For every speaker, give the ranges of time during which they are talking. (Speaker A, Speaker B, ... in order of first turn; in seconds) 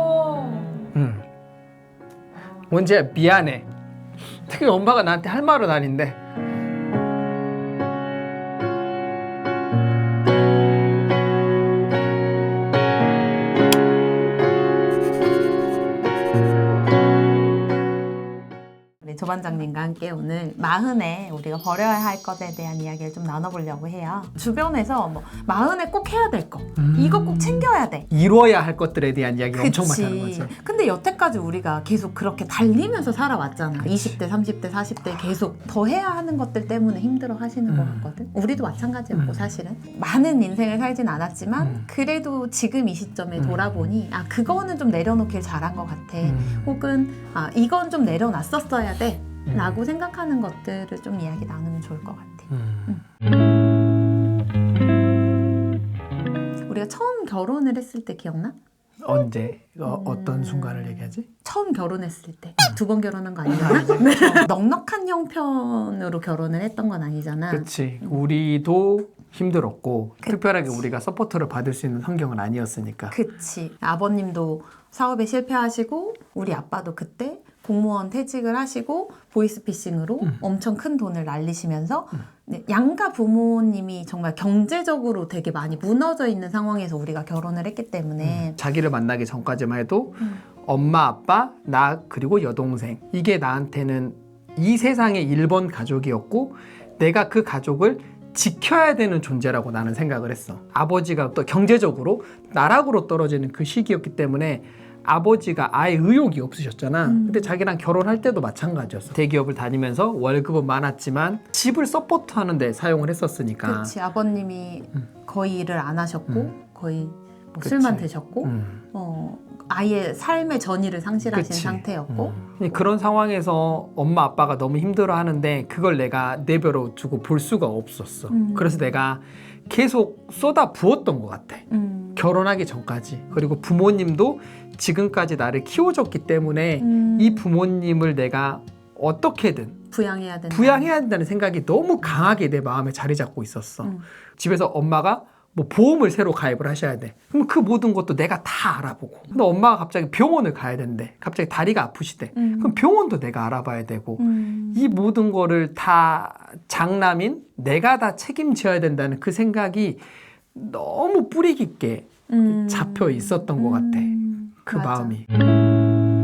Speaker A: 0.8-1.2, 2.6-3.7, 4.5-6.2, 26.8-30.5, 33.8-34.1, 37.7-38.0, 39.1-39.5, 41.6-41.9, 46.2-46.7, 49.5-49.8, 52.5-53.0, 59.0-61.3, 63.5-64.5, 67.5-73.2, 88.2-113.9, 117.5-118.8, 121.3-139.8, 140.5-164.1, 164.7-165.2
Speaker B: 19.0-28.1, 29.5-53.0, 56.7-58.6, 59.8-68.2, 73.1-88.6, 107.0-107.6, 113.6-122.8, 128.3-128.8, 131.7-132.2, 136.8-137.5, 139.9-140.9, 152.4-152.8, 154.2-155.0, 162.3-165.2